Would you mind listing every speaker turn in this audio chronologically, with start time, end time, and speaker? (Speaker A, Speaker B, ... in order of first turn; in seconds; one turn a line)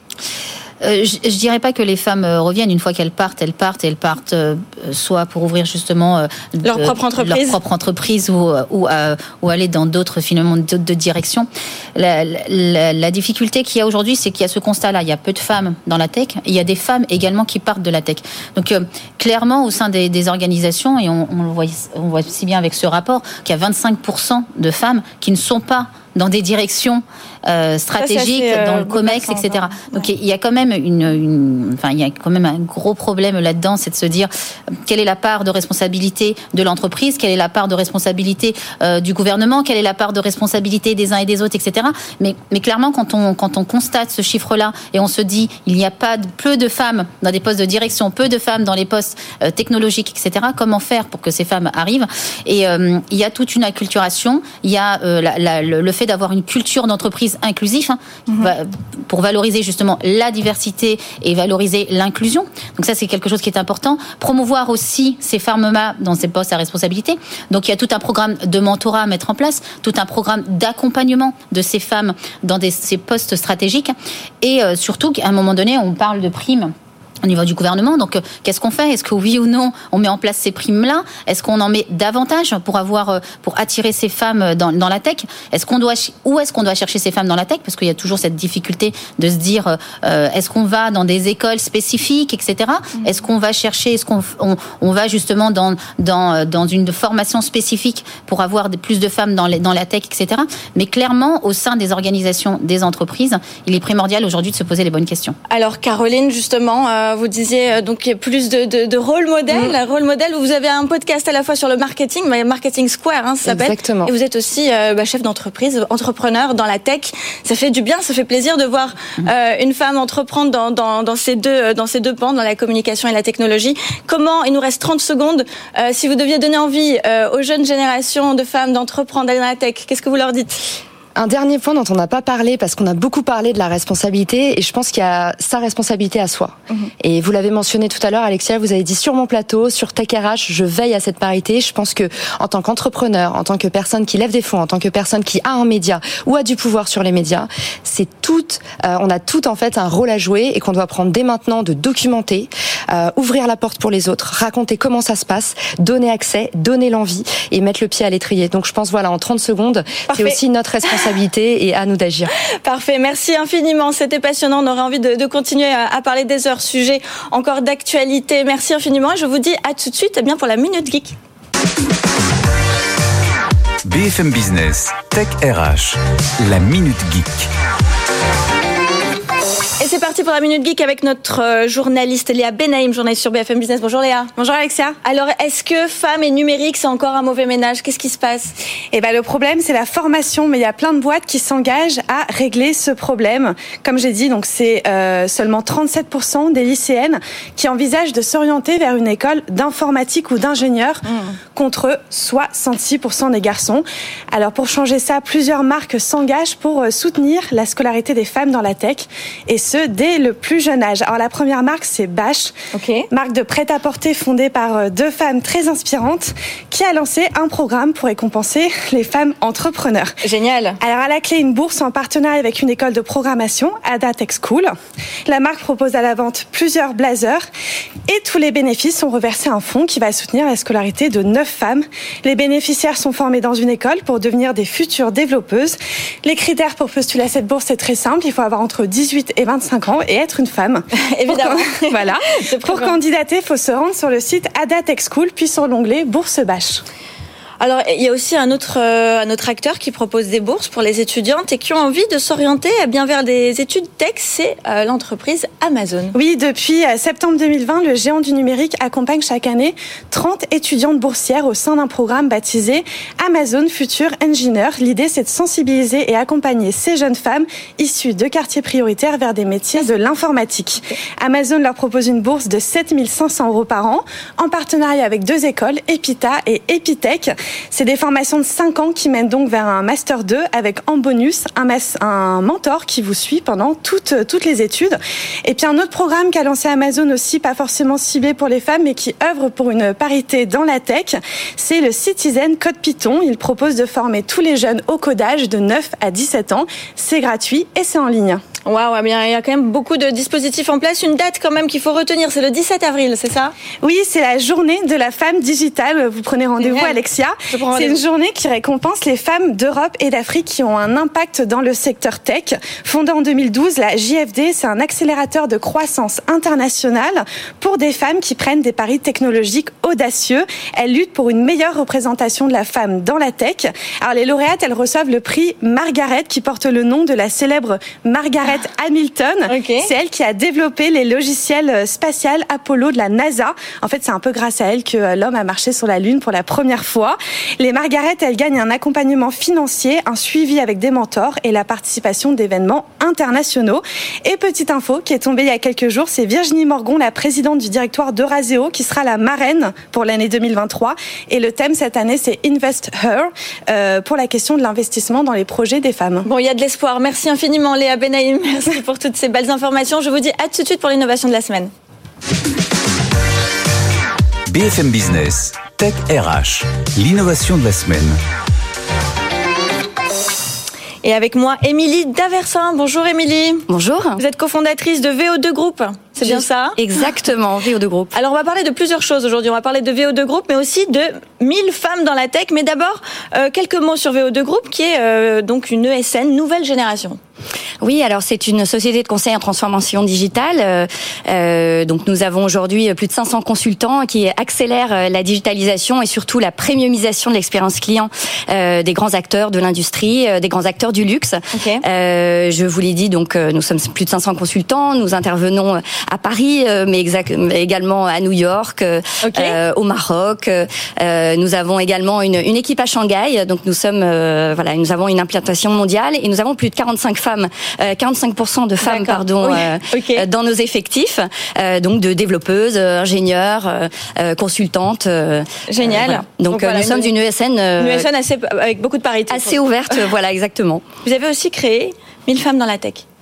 Speaker A: 0.8-76.7
Speaker B: 6.6-7.5
Speaker B: 28.0-30.1
Speaker A: 77.2-105.3
Speaker B: 105.5-130.7
Speaker C: 113.4-114.1
Speaker C: 131.1-162.3
Speaker B: 160.1-160.4
Speaker B: 162.6-171.2
Speaker D: 173.8-177.5
Speaker B: 179.8-184.4
Speaker E: 184.4-184.9
Speaker B: 185.0-188.5
Speaker E: 188.9-201.0
Speaker B: 201.1-201.3
Speaker E: 201.5-212.5
Speaker B: 212.7-213.1
Speaker E: 213.1-220.1
Speaker B: 220.2-220.8
Speaker E: 220.8-224.7
Speaker E: 225.2-227.4
Speaker E: 228.1-246.8
Speaker B: 240.9-242.9
Speaker B: 247.6-256.1
Speaker E: 256.1-298.4
Speaker B: 298.6-303.5
Speaker E: 303.8-356.3
Speaker B: 306.6-308.0
Speaker B: 329.5-329.9
Speaker B: 356.2-361.7
Speaker D: 364.5-368.2
Speaker B: 371.0-373.6
Speaker F: 373.7-374.2
Speaker B: 374.2-376.8
Speaker F: 376.2-378.1
Speaker B: 378.1-387.2
Speaker F: 387.8-428.1
Speaker B: 401.5-401.8
Speaker B: 409.2-409.6
Speaker B: 418.8-420.2
Speaker B: 425.7-427.1
Speaker B: 427.8-430.0
Speaker F: 429.3-430.8
Speaker B: 431.0-433.0